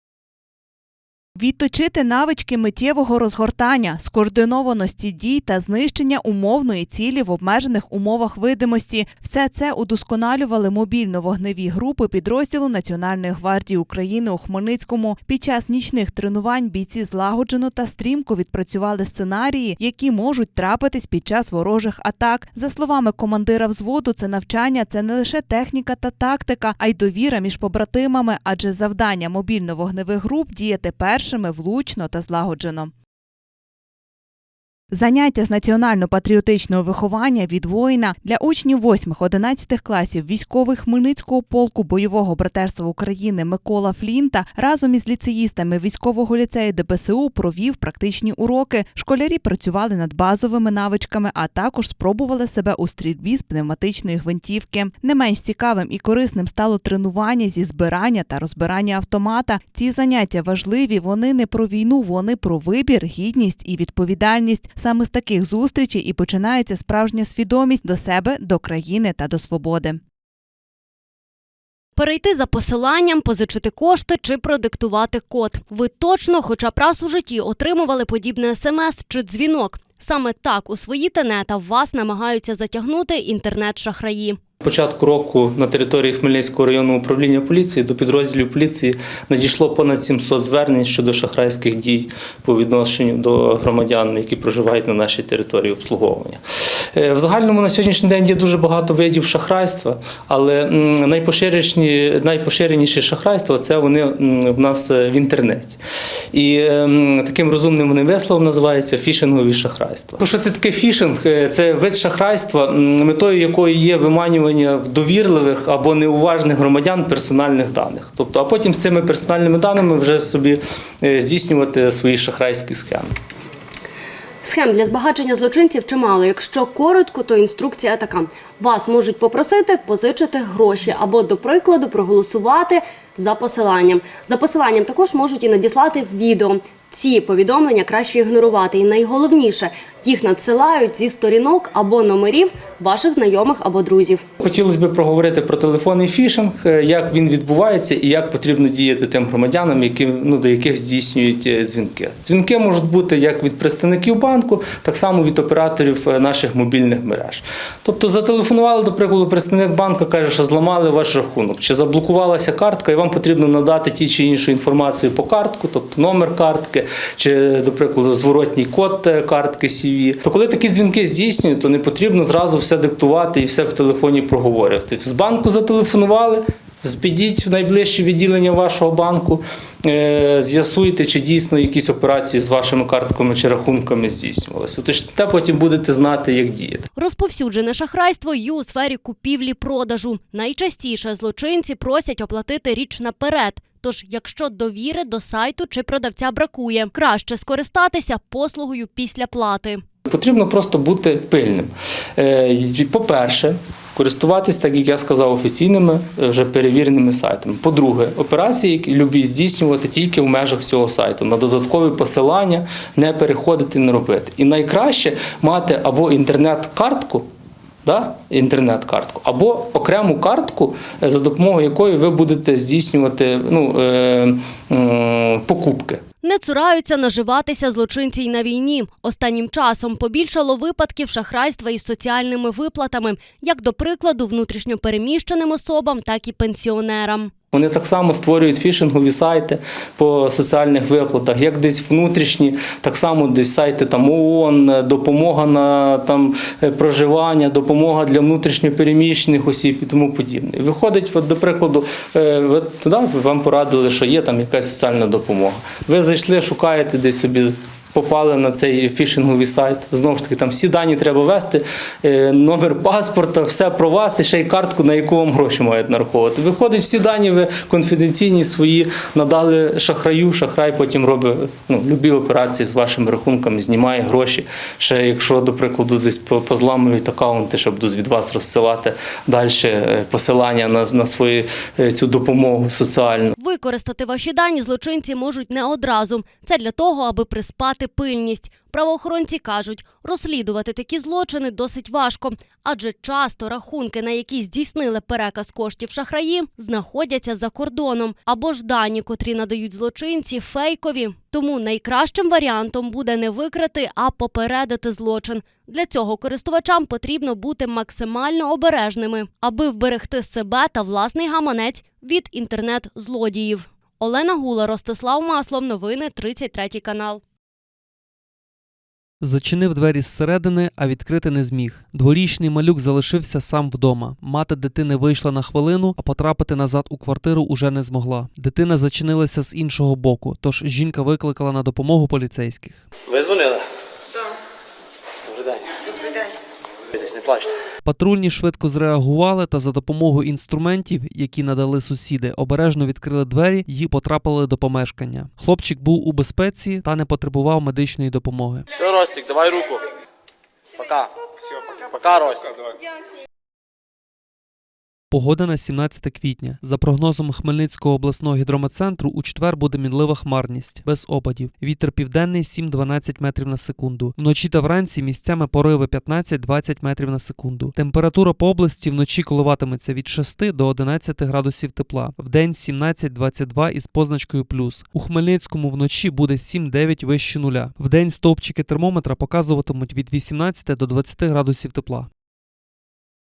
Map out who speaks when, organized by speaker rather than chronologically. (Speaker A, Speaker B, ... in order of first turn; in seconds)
Speaker A: 1.4-32.9, 34.9-70.0
Speaker B: 72.0-84.4, 124.4-144.2, 186.9-199.8, 226.2-237.3, 283.4-317.2
Speaker C: 84.6-96.4, 96.9-105.8, 106.3-123.1, 144.4-186.9, 200.1-217.2, 217.8-226.0, 237.5-283.4
Speaker D: 319.2-332.8, 337.8-348.6, 355.1-382.1
Speaker E: 333.1-333.6, 335.1-335.6, 336.9-337.5, 348.7-349.8, 350.8-351.1, 351.9-352.6